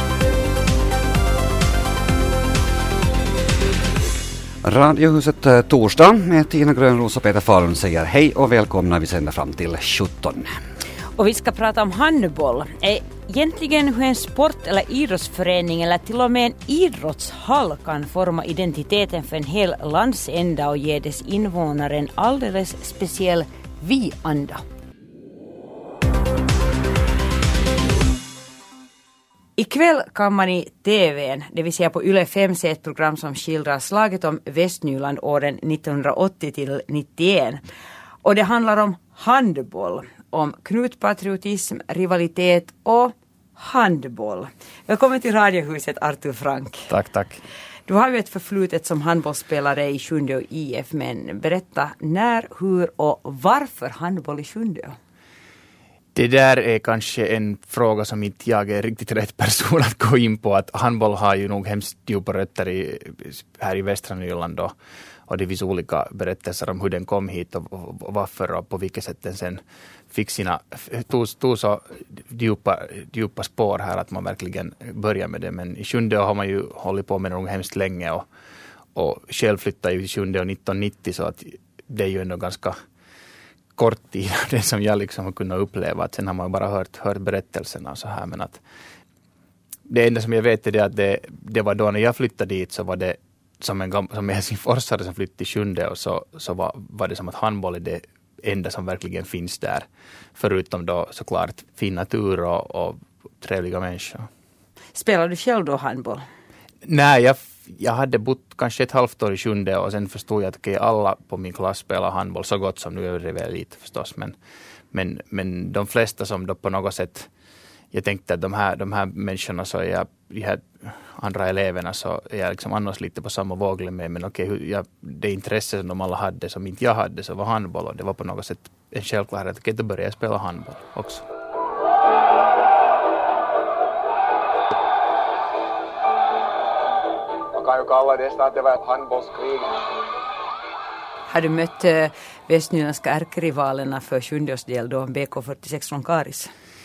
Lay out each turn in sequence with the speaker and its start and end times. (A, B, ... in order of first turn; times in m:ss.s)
0:04.6-0:10.5 A
0:11.2-0:24.6 B
0:29.6-0:37.6 B
0:38.2-0:46.9 B
0:46.9-0:47.4 C
0:47.9-0:55.0 B
0:56.2-1:04.7 C
1:05.3-1:18.3 C
1:19.0-1:22.8 C
1:23.8-1:28.6 C
1:29.9-1:44.3 C
1:45.0-1:46.2 B
1:46.9-1:54.4 C
1:54.9-1:57.3 C
1:57.9-2:11.2 C
2:17.5-2:19.9 D
2:21.3-2:26.5 B